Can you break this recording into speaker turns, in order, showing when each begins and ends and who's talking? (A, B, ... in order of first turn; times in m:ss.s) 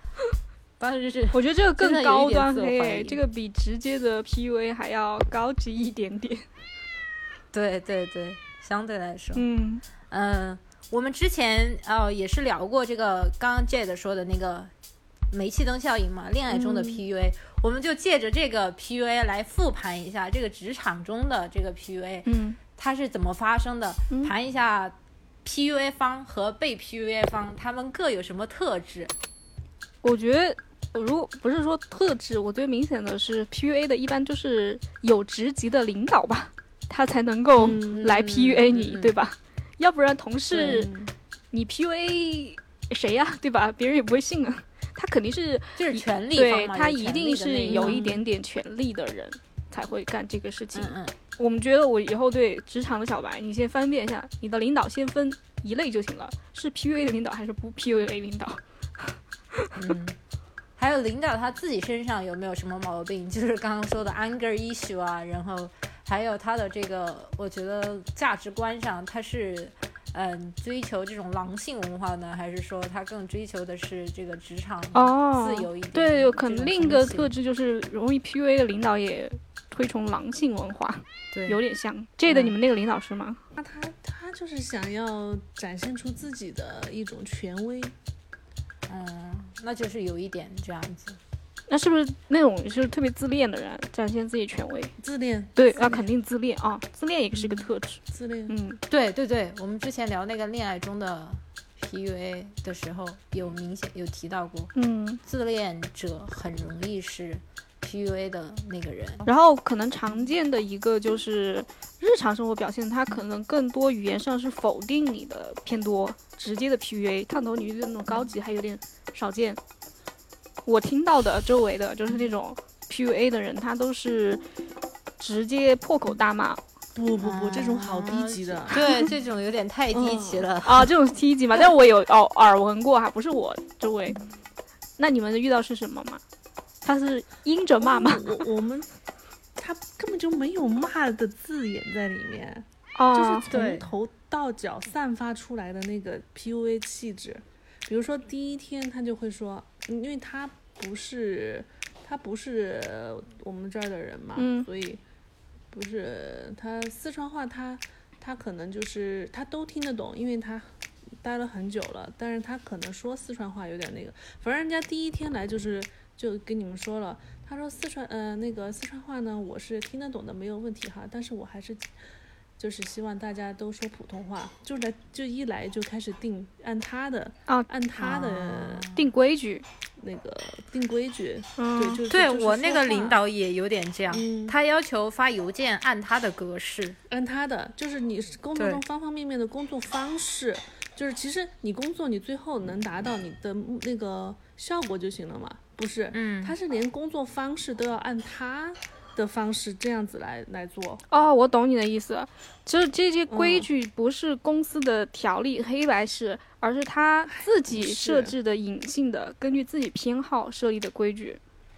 0:00.8-0:03.2 A
0:01.3-0:06.4 B
0:07.5-0:09.4 A
0:09.3-0:09.8 B
0:10.1-0:14.7 A
0:15.3-0:29.1 A
0:16.6-0:16.9 C
0:22.2-0:22.6 B
0:30.0-0:40.9 B
0:37.6-0:38.1 C
0:37.9-0:39.1 A
0:40.5-0:40.8 A
0:40.5-0:41.1 C
0:41.5-0:59.7 B
0:45.8-0:48.2 A
0:47.7-0:48.0 C
0:50.7-0:51.1 A
0:59.8-1:00.2 A
1:00.8-1:17.3 A
1:14.9-1:23.4 B
1:21.3-1:21.6 A
1:22.3-1:22.5 A
1:23.6-1:27.9 C
1:28.9-1:31.2 A
1:31.7-1:34.9 B
1:35.0-1:36.0 C
1:35.6-1:38.8 B
1:37.4-1:38.5 C
1:38.9-1:44.7 A
1:44.7-1:45.2 B
1:45.2-1:49.3 A
1:49.2-1:59.6 B
2:00.6-2:04.4 B
2:05.2-2:06.6 B
2:07.0-2:08.9 C
2:07.2-2:10.9 A
2:09.9-2:10.5 C
2:10.6-2:14.2 B
2:15.0-2:16.2 B
2:16.8-2:18.2 B
2:17.8-2:18.9 C
2:19.6-2:35.0 C
2:23.0-2:23.5 B
2:23.5-2:23.9 A
2:34.4-2:34.7 B
2:35.7-2:51.9 C
2:52.6-2:58.9 C
2:58.0-2:59.1 A
2:58.9-2:59.6 B
3:00.0-3:03.2 C
3:01.6-3:02.0 B
3:02.1-3:07.0 A
3:04.1-3:04.5 C
3:07.1-3:21.0 C
3:08.6-3:08.8 A
3:16.1-3:16.6 A
3:21.1-3:31.4 B
3:23.3-3:23.6 C
3:27.3-3:28.3 C